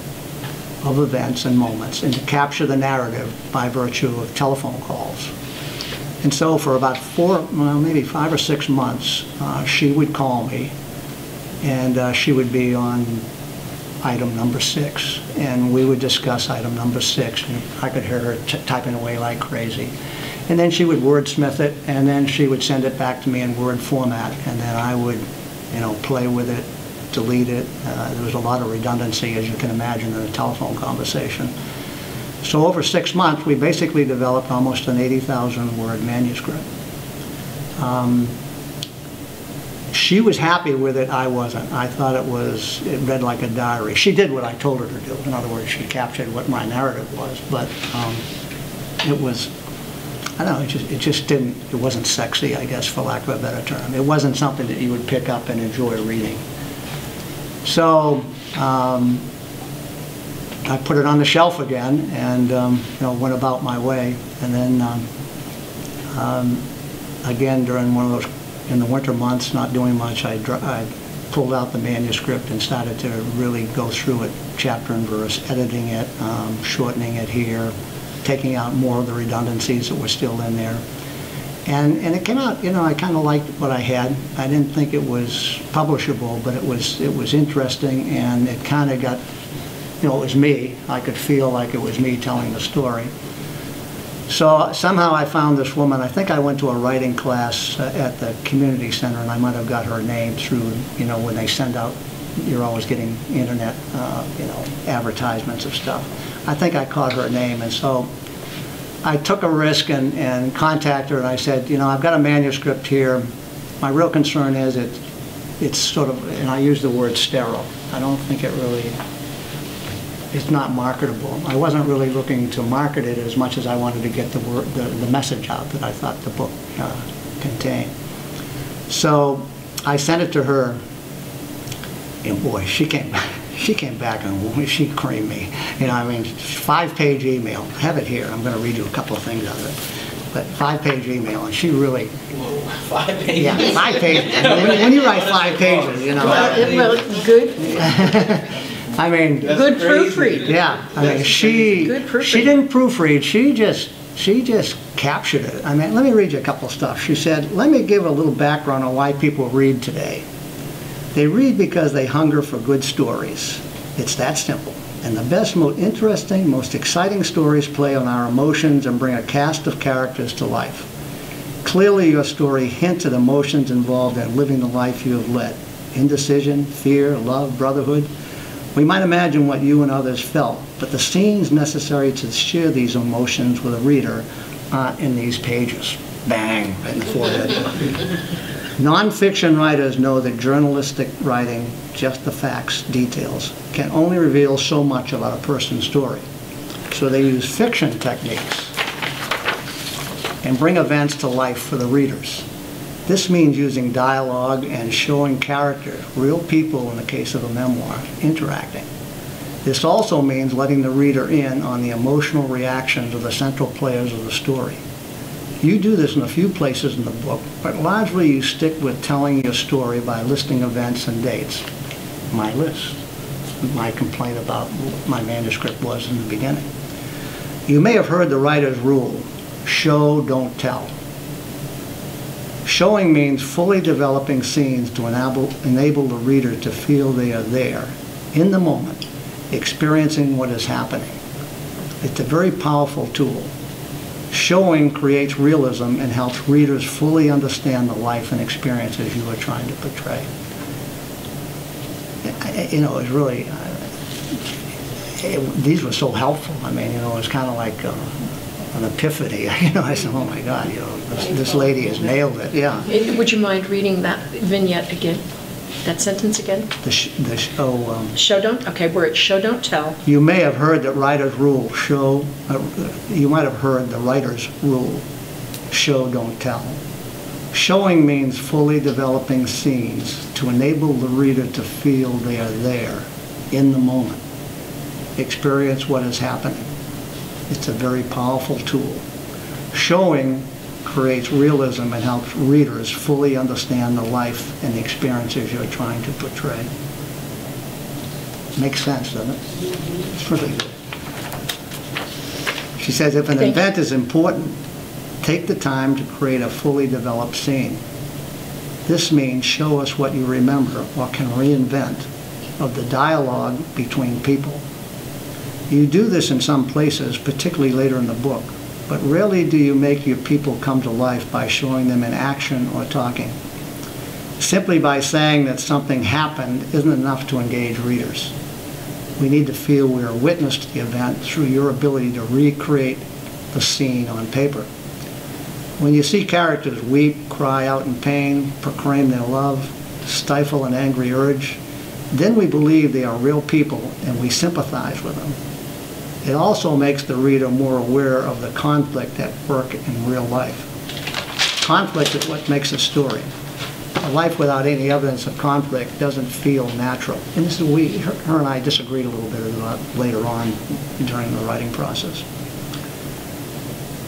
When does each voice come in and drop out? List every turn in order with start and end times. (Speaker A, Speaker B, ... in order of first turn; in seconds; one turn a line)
Speaker A: 0.8-5.3
Speaker A: 6.2-10.7
Speaker A: 11.6-13.2
Speaker A: 14.0-19.9
Speaker A: 20.5-31.5
Speaker A: 32.4-36.6
Speaker A: 37.8-38.3
Speaker A: 39.9-48.2
Speaker A: 49.0-49.5
Speaker A: 50.4-56.4
Speaker A: 57.6-59.2
Speaker A: 60.6-65.0
Speaker A: 66.1-66.6
Speaker A: 67.2-80.8
Speaker A: 81.7-89.2
Speaker A: 90.0-93.1
Speaker A: 94.3-108.1
Speaker A: 109.0-113.3
Speaker A: 113.8-115.0
Speaker A: 115.6-119.0
Speaker A: 120.3-127.9
Speaker A: 128.9-130.8
Speaker A: 132.2-139.8
Speaker A: 140.3-142.1
Speaker B: 142.4-147.2
Speaker A: 143.3-146.8
Speaker C: 146.2-147.8
Speaker A: 147.6-149.6
Speaker B: 149.4-151.7
Speaker C: 149.5-151.1
Speaker A: 150.4-160.2
Speaker C: 151.6-152.5
Speaker A: 161.1-170.9
Speaker A: 171.6-178.1
Speaker A: 178.7-188.0
Speaker A: 188.8-196.2
Speaker A: 196.9-198.7
Speaker A: 200.4-202.4
Speaker A: 203.1-208.9
Speaker A: 209.6-214.8
Speaker A: 215.6-221.7
Speaker A: 222.3-223.0
Speaker A: 223.6-226.7
Speaker A: 227.7-230.9
Speaker A: 232.6-241.1
Speaker A: 242.0-243.5
Speaker A: 244.3-250.3
Speaker A: 252.2-253.9
Speaker A: 255.2-262.9
Speaker C: 262.9-265.2
Speaker C: 265.8-266.7
Speaker A: 266.8-268.2
Speaker C: 268.2-270.0
Speaker A: 270.0-275.0
Speaker A: 275.7-276.8
Speaker A: 277.5-284.2
Speaker A: 285.2-286.7
Speaker A: 287.5-289.0
Speaker A: 289.7-296.7
Speaker A: 298.6-299.4
Speaker A: 300.0-300.8
Speaker A: 302.8-304.6
Speaker A: 305.2-307.8
Speaker A: 308.9-312.1
Speaker A: 312.6-314.6
Speaker A: 315.7-323.4
Speaker A: 324.4-328.3
Speaker A: 329.2-334.7
Speaker A: 335.8-341.6
Speaker A: 342.1-345.4
Speaker A: 346.2-350.7
Speaker A: 351.6-353.3
Speaker A: 354.0-362.2